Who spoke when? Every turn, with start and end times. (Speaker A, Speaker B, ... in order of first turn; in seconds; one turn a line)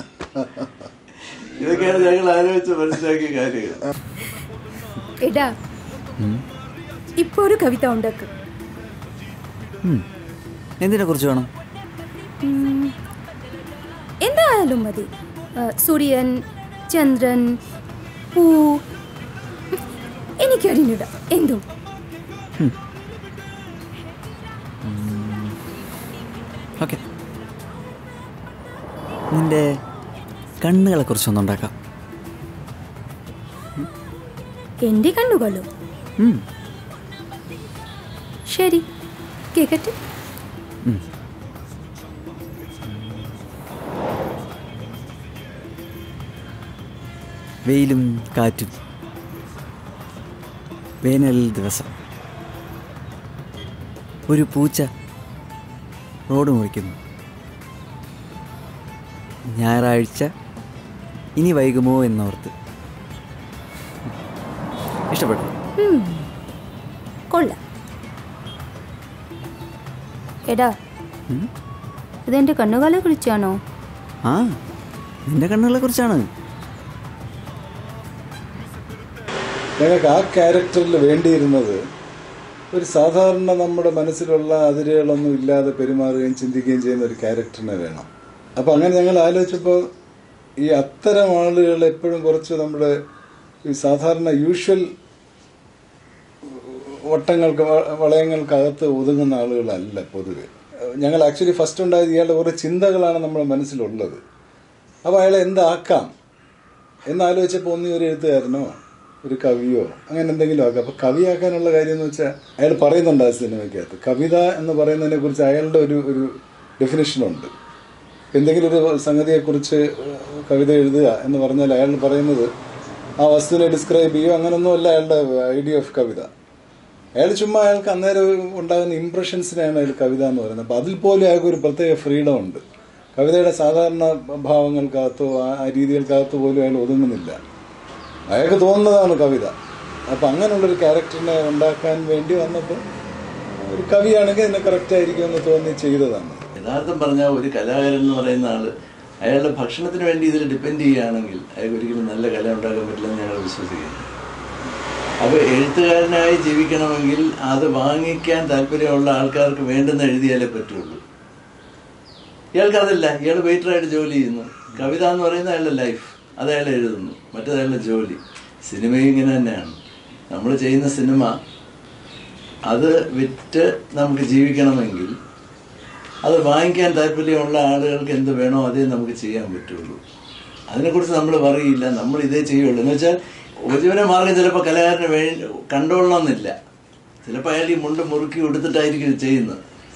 Speaker A: 0.4-0.9
Speaker B: 1.6-3.8
Speaker C: 5.2-5.5
Speaker C: 7.2-8.3
Speaker D: 10.8-11.5
Speaker C: 12.4-13.0
Speaker C: 14.2-17.6
Speaker C: 18.3-18.8
Speaker C: 20.4-21.6
Speaker D: 24.8-25.6
Speaker D: 29.3-29.6
Speaker D: 30.6-31.7
Speaker C: 34.8-35.7
Speaker C: 38.5-38.9
Speaker C: 39.5-40.0
Speaker D: 42.9-43.3
Speaker D: 47.6-48.8
Speaker D: 51.0-51.9
Speaker D: 54.3-54.9
Speaker D: 56.3-57.0
Speaker D: 59.6-60.3
Speaker D: 61.4-62.5
Speaker D: 65.1-65.5
Speaker C: 65.8-66.3
Speaker C: 67.3-67.6
Speaker C: 70.5-70.7
Speaker C: 72.3-73.6
Speaker D: 74.3-74.6
Speaker D: 75.3-76.3
Speaker A: 79.8-81.8
Speaker A: 82.7-89.8
Speaker A: 90.6-93.0
Speaker A: 93.7-94.9
Speaker A: 96.5-104.2
Speaker A: 105.0-106.1
Speaker A: 107.1-117.5
Speaker A: 118.3-122.5
Speaker A: 123.2-126.3
Speaker A: 127.2-132.6
Speaker A: 133.2-137.4
Speaker A: 138.3-139.5
Speaker A: 140.1-142.8
Speaker A: 143.7-146.5
Speaker B: 146.6-148.7
Speaker B: 149.2-154.1
Speaker B: 155.2-161.0
Speaker B: 162.6-169.8
Speaker B: 170.3-171.3
Speaker B: 172.7-175.1
Speaker B: 176.2-180.0
Speaker B: 180.7-186.6
Speaker B: 187.2-189.6